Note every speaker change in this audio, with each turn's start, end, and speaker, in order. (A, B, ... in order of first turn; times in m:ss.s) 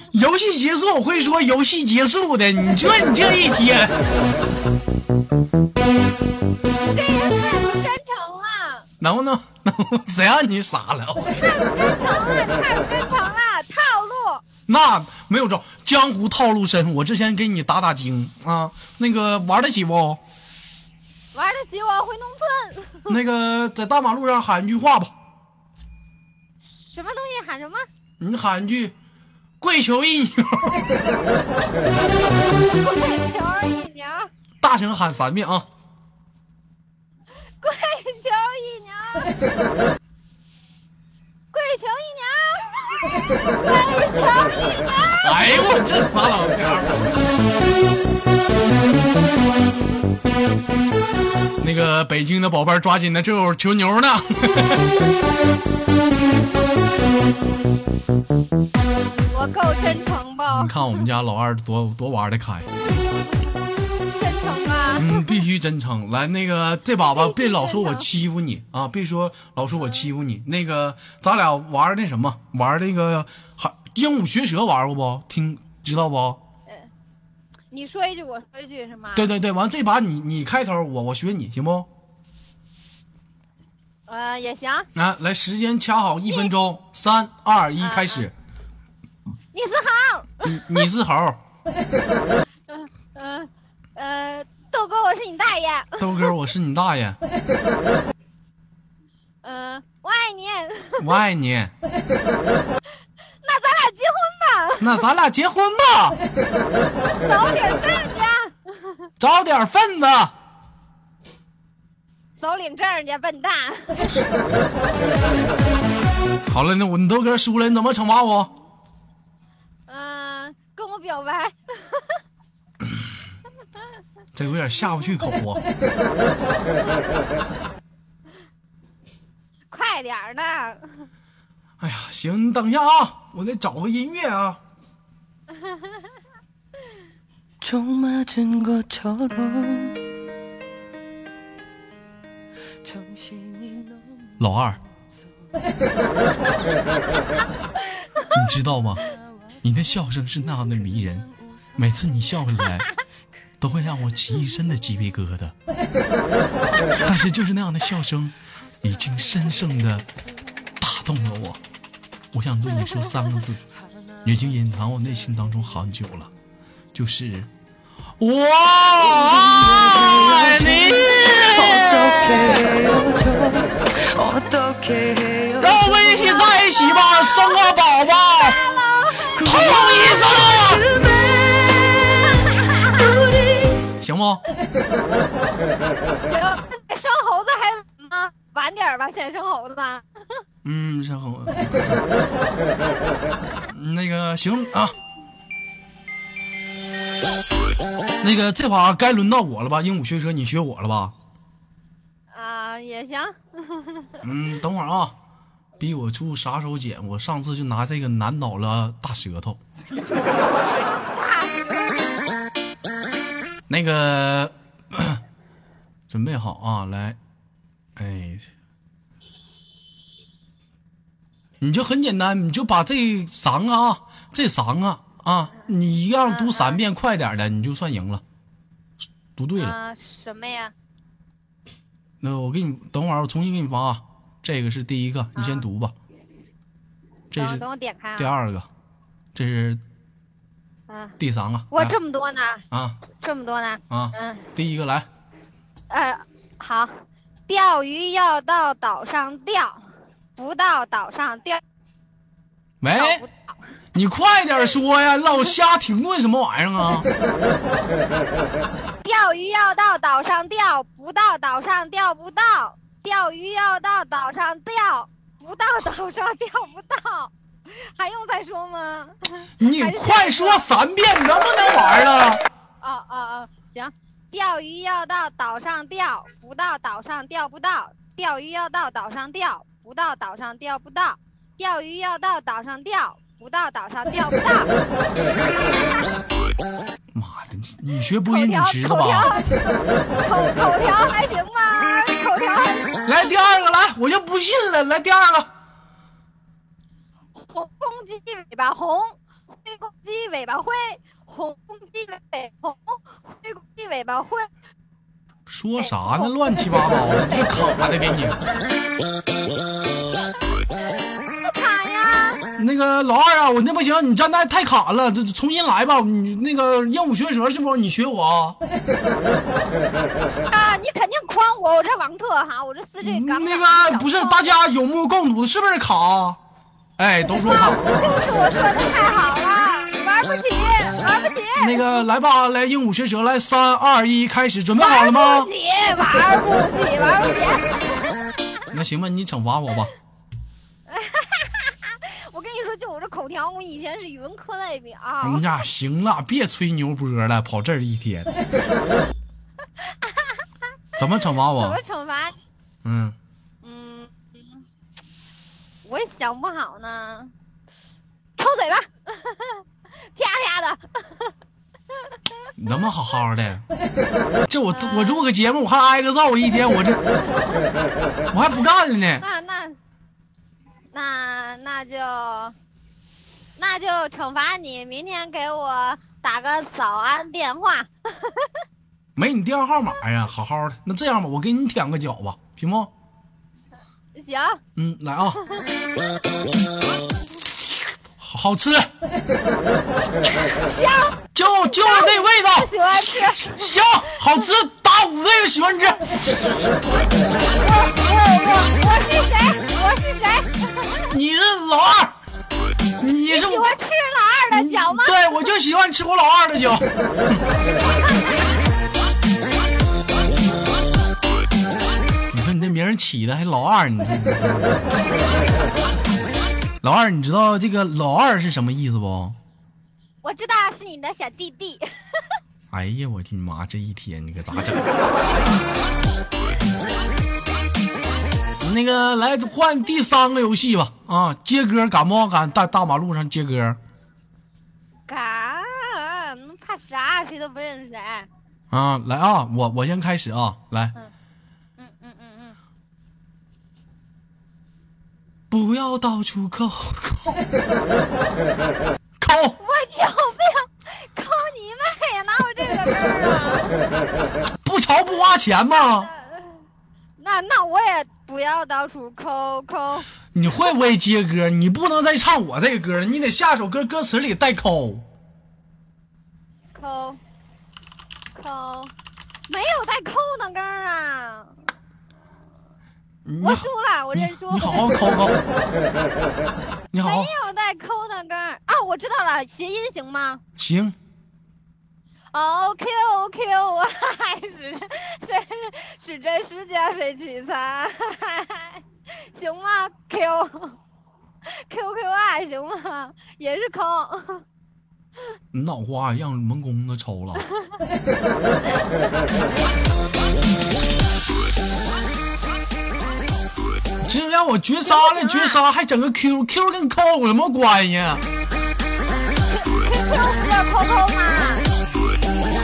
0:00.1-0:04.0 A
0:06.9-0:08.9 B
0:09.0-0:11.3 A
0:11.2-0:14.4 B
0:14.7-0:20.2 A
0:21.3-0:23.2 B
0:23.1-0:25.1 A
0:26.8-0:27.9 B
0:28.2-0:28.9 A
0:29.6-0:30.9 A
0:32.6-0:34.3 B
0:34.6-0:35.7 A
0:37.6-0:39.4 B
0:41.5-0:45.4 B
0:45.2-0:47.2 A
0:51.6-0:54.9 A
0:59.3-1:00.8 B
1:00.5-1:02.7 A
1:04.1-1:05.3 B
1:05.0-1:16.4 A
1:07.0-1:08.1 B
1:09.8-1:10.0 B
1:17.7-1:19.3 B
1:19.2-1:21.9 A
1:24.1-1:24.9 B
1:25.0-1:28.3 A
1:27.8-1:28.3 B
1:29.5-1:30.8 B
1:30.4-1:31.4 A
1:32.7-1:36.3 B
1:36.0-1:37.2 A
1:39.4-1:41.2 B
1:41.0-1:41.7 A
1:43.4-1:45.0 B
1:44.8-1:46.2 A
1:47.2-1:49.0 B
1:49.2-1:50.3 A
1:52.4-1:54.2 B
1:56.5-1:58.5 A
1:59.9-2:02.2 B
2:04.4-2:05.6 A
2:09.7-2:11.1 B
2:11.8-2:14.6 A
2:17.6-2:20.0 C
2:22.9-2:23.9 C
2:24.4-2:24.8 A
2:28.3-2:29.0 A
2:29.6-2:32.9 A
2:33.6-2:35.5 A
2:37.0-2:40.0 A
2:40.8-2:41.6 A
2:42.3-2:43.6 A
2:44.2-2:46.3 A
2:46.9-2:47.5 A
2:48.2-2:52.8 A
2:52.5-2:55.6 C
2:55.6-2:58.6 A
2:58.4-2:59.8 B
2:59.4-3:01.0 A
3:01.1-3:03.5 B
3:03.9-3:04.4 A
3:06.2-3:10.1 B
3:10.6-3:12.0 A
3:13.7-3:15.0 A
3:18.2-3:21.2 A
3:22.3-3:24.2 B
3:24.2-3:25.1 A
3:25.8-3:29.6 A
3:31.1-3:32.1 B
3:33.7-3:35.2 A
3:36.1-3:37.2 A
3:38.0-3:38.5 A
3:41.6-3:48.2 A
3:46.2-3:46.8 B
3:49.4-3:49.8 A
3:49.6-3:50.7 B
3:52.2-3:55.9 A
3:55.4-3:55.6 B
3:57.3-3:57.7 A
3:57.4-3:58.3 B
3:58.2-3:58.7 A
3:59.4-3:59.8 A
4:00.9-4:01.2 B
4:01.2-4:02.0 A
4:01.7-4:02.6 B
4:02.7-4:03.0 A
4:03.2-4:04.5 B
4:03.9-4:05.1 A
4:05.9-4:11.6 B
4:12.8-4:13.2 A
4:12.9-4:13.6 B
4:13.9-4:17.1 A
4:19.0-4:30.6 B
4:29.6-4:32.4 A
4:32.8-4:44.7 B
4:47.1-4:49.4 A
4:48.2-4:53.0 B
4:53.0-4:55.5 A
4:57.4-5:04.5 B
5:05.5-5:08.4 A
5:05.8-5:06.3 B
5:10.9-5:12.4 B
5:12.6-5:18.6 A
5:20.4-5:24.6 B
5:23.0-5:26.4 A
5:27.0-5:28.3 A
5:27.4-5:31.9 B
5:31.6-5:35.5 A
5:34.8-5:37.9 B
5:38.7-5:39.9 A
5:40.9-5:45.5 B
5:45.2-5:48.3 A
5:50.0-5:50.4 B
5:51.0-5:51.8 A
5:51.4-5:52.4 B
5:52.8-5:53.2 A
5:53.6-5:54.6 B
5:55.8-5:57.3 B
5:58.4-6:01.3 B
6:02.6-6:03.6 A
6:04.5-6:07.0 A
6:04.7-6:05.2 B
6:07.3-6:07.7 B
6:08.3-6:09.2 A
6:09.2-6:09.8 B
6:10.9-6:12.6 B
6:13.6-6:18.6 B
6:19.2-6:22.9 A
6:24.2-6:24.6 B
6:24.8-6:25.4 A
6:28.2-6:28.9 A
6:30.6-6:33.8 B
6:31.4-6:32.7 A
6:33.4-6:36.2 A
6:37.3-6:41.0 B
6:41.1-6:42.2 A
6:43.0-6:43.7 A
6:43.3-6:45.2 B
6:44.5-6:47.4 A
6:47.8-6:48.5 B
6:52.3-6:55.0 A
6:56.8-6:59.4 A
7:00.2-7:01.9 B
7:02.7-7:04.9 A
7:08.6-7:13.8 A
7:15.1-7:18.3 B
7:18.7-7:21.0 A
7:21.8-7:22.6 B
7:25.5-7:27.4 A
7:29.2-7:29.6 A
7:29.6-7:33.9 B
7:34.6-7:36.1 A
7:35.7-7:36.6 B
7:37.2-7:40.1 B
7:40.3-7:45.0 A
7:46.7-7:47.2 B
7:48.3-7:48.9 B
7:49.5-7:51.6 B
7:53.3-7:55.4 A
7:53.4-7:55.0 B
7:56.9-7:57.3 A
7:57.0-8:00.4 B
8:00.6-8:01.0 A
8:02.3-8:10.8 B
8:11.5-8:14.4 B
8:15.5-8:17.5 A
8:24.0-8:28.2 A
8:24.9-8:25.6 B
8:29.5-8:31.7 B